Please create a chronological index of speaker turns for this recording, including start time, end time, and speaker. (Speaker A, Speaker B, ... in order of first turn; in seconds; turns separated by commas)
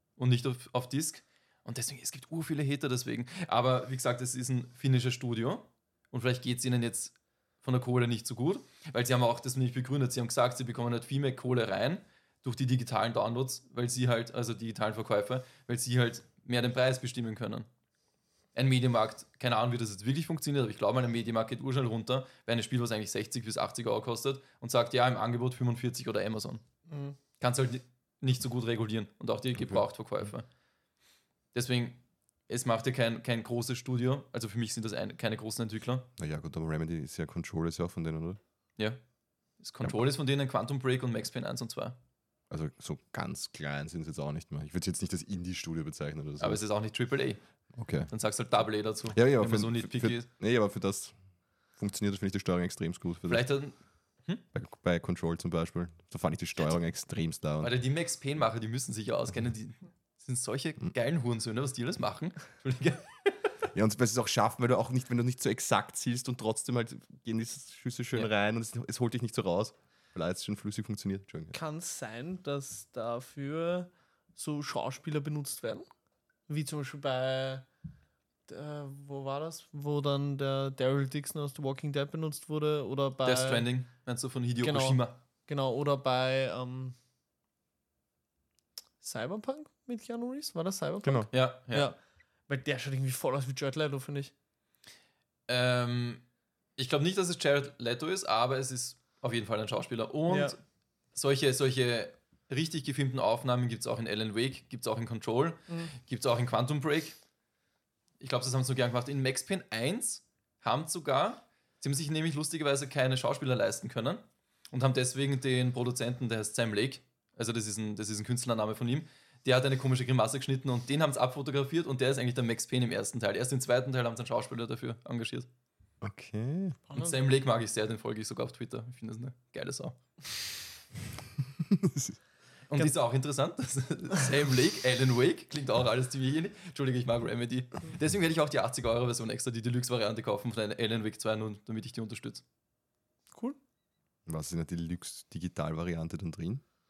Speaker A: 0.2-17.7, Speaker A: 18.5-26.6, Speaker B: 26.9-27.2, Speaker A: 27.4-30.4, Speaker A: 31.5-36.0, Speaker C: 36.2-38.4, Speaker A: 39.6-42.0, Speaker C: 42.5-46.6, Speaker A: 46.4-47.4, Speaker C: 47.8-48.1, Speaker A: 48.1-50.2, Speaker C: 49.1-51.1, Speaker C: 51.8-53.4, Speaker A: 53.3-54.4, Speaker C: 54.5-57.7, Speaker A: 57.6-63.3, Speaker C: 63.7-71.5, Speaker B: 71.5-75.9, Speaker B: 76.5-77.7, Speaker B: 78.5-83.7, Speaker A: 83.2-85.2, Speaker B: 84.6-87.0, Speaker B: 89.0-92.0, Speaker C: 91.0-91.3, Speaker A: 91.3-91.9, Speaker B: 92.5-94.3, Speaker A: 95.5-96.2, Speaker A: 96.8-100.6, Speaker B: 100.3-100.5, Speaker A: 101.1-107.2, Speaker A: 108.2-125.5, Speaker C: 126.0-126.8, Speaker B: 126.9-127.2, Speaker A: 127.0-130.0, Speaker C: 131.6-132.1, Speaker A: 132.7-142.4, Speaker B: 143.3-143.6, Speaker C: 144.3-146.6